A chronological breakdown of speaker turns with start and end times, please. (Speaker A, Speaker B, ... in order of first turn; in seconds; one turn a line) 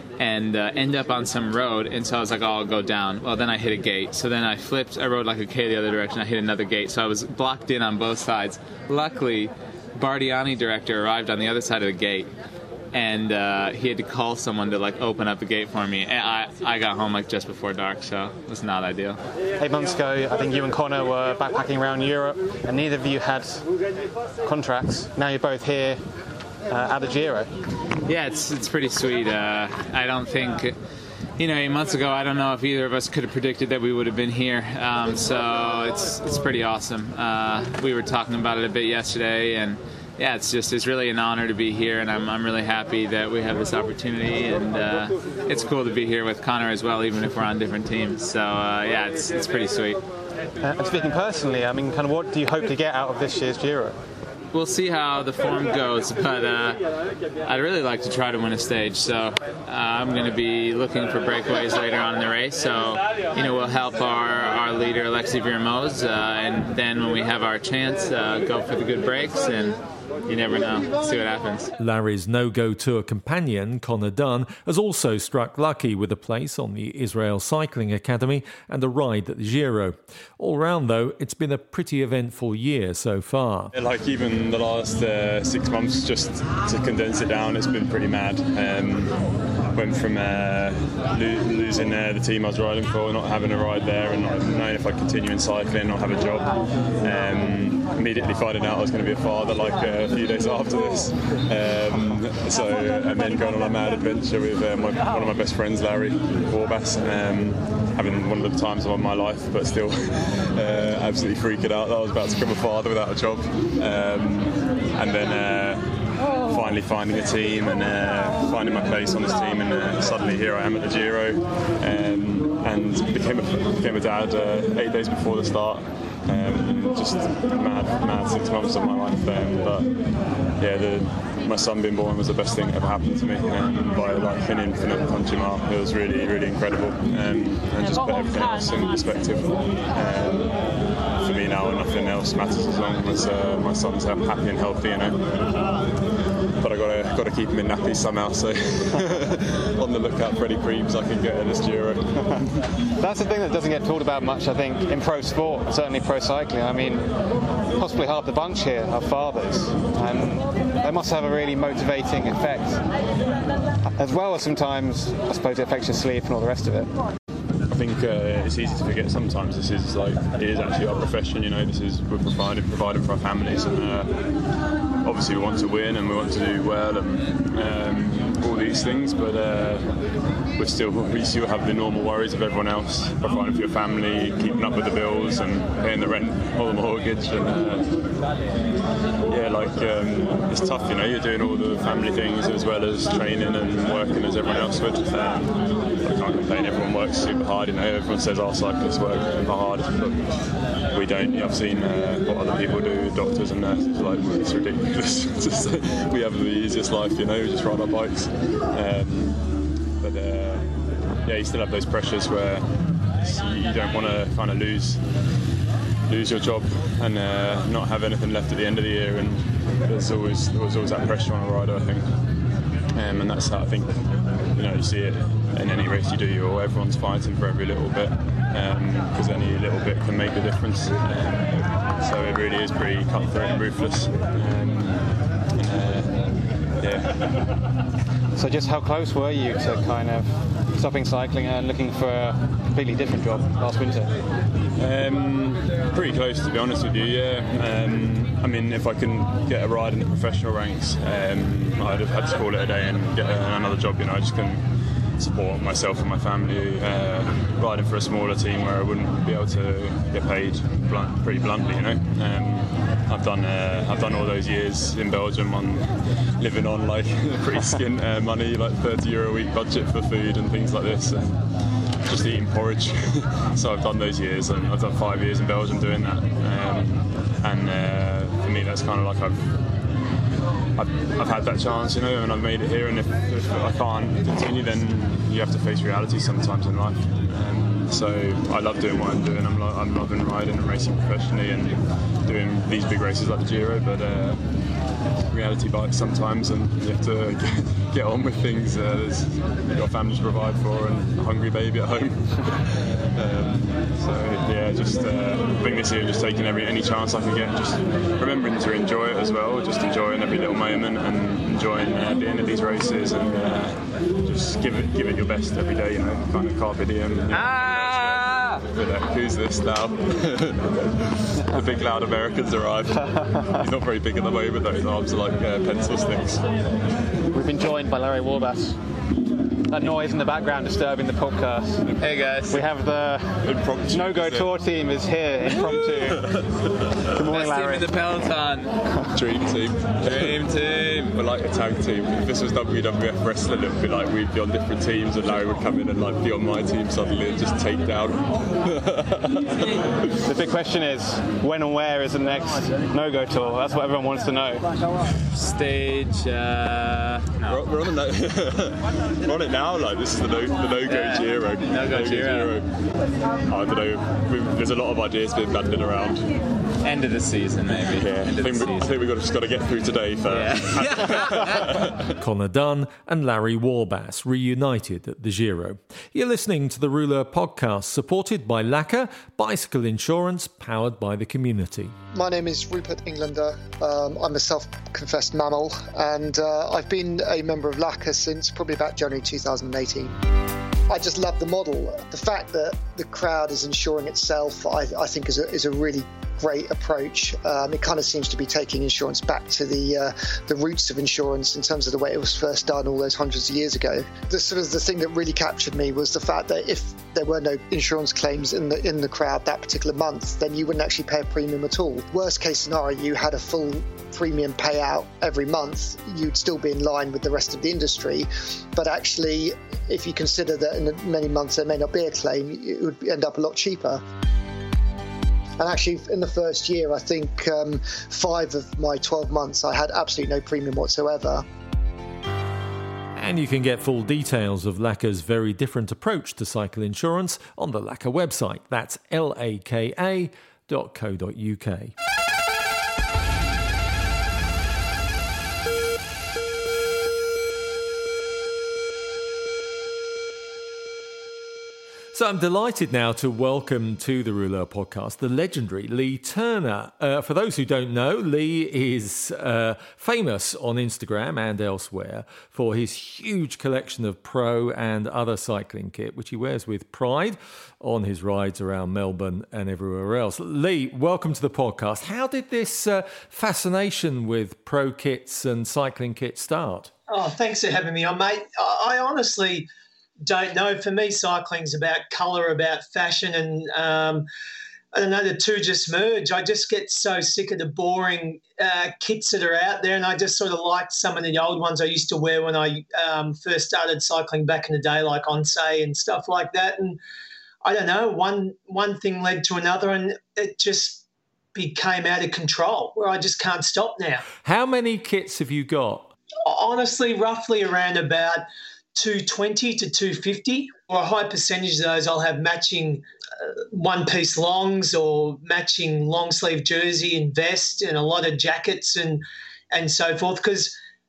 Speaker A: 0.2-12.3
Speaker A: 12.9-19.2
Speaker B: 19.6-23.7
Speaker B: 24.4-26.0
Speaker B: 26.7-27.5
Speaker A: 28.1-30.7
Speaker A: 31.4-50.0
Speaker B: 50.6-54.0
Speaker A: 54.5-56.8
Speaker A: 57.4-71.7
Speaker C: 71.8-83.7
Speaker D: 83.7-89.2
Speaker D: 89.7-115.9
Speaker D: 116.4-129.9
Speaker D: 130.6-140.5
Speaker D: 141.2-145.2
Speaker D: 146.6-152.1
Speaker B: 153.0-157.1
Speaker B: 157.7-162.8
Speaker B: 163.9-166.9
Speaker D: 167.7-174.1
Speaker D: 175.0-179.9
Speaker D: 180.6-187.9
Speaker D: 189.3-209.4
Speaker D: 210.0-210.7
Speaker D: 211.2-212.7
Speaker D: 213.2-215.0
Speaker D: 216.1-222.1
Speaker D: 222.9-236.2
Speaker D: 236.8-237.3
Speaker B: 238.3-244.1
Speaker D: 244.8-254.6
Speaker D: 255.2-265.9
Speaker D: 266.4-271.4
Speaker D: 272.1-279.6
Speaker D: 280.8-294.4
Speaker D: 295.3-323.0
Speaker A: 317.3-318.6
Speaker B: 322.9-323.7
Speaker D: 323.6-326.4
Speaker B: 327.3-328.8
Speaker B: 329.7-331.9
Speaker A: 332.0-332.6
Speaker B: 332.5-336.3
Speaker D: 333.4-334.6
Speaker D: 335.9-336.5
Speaker B: 337.1-337.9
Speaker A: 337.3-338.8
Speaker D: 339.1-349.6
Speaker A: 340.0-341.2
Speaker B: 350.2-354.7
Speaker A: 355.3-357.6
Speaker D: 357.4-362.7
Speaker A: 360.9-362.6
Speaker D: 363.5-366.2
Speaker A: 366.8-369.0
Speaker D: 367.7-372.1
Speaker A: 370.3-371.8
Speaker C: 372.2-381.9
Speaker E: 382.1-390.2
Speaker E: 390.9-424.0
Speaker E: 425.6-431.4
Speaker C: 433.1-441.9
Speaker C: 452.1-476.9
Speaker F: 477.1-479.7
Speaker F: 480.2-484.2
Speaker F: 484.9-497.0
Speaker F: 497.6-501.0
Speaker F: 501.5-504.2
Speaker C: 504.4-506.1
Speaker F: 506.4-520.8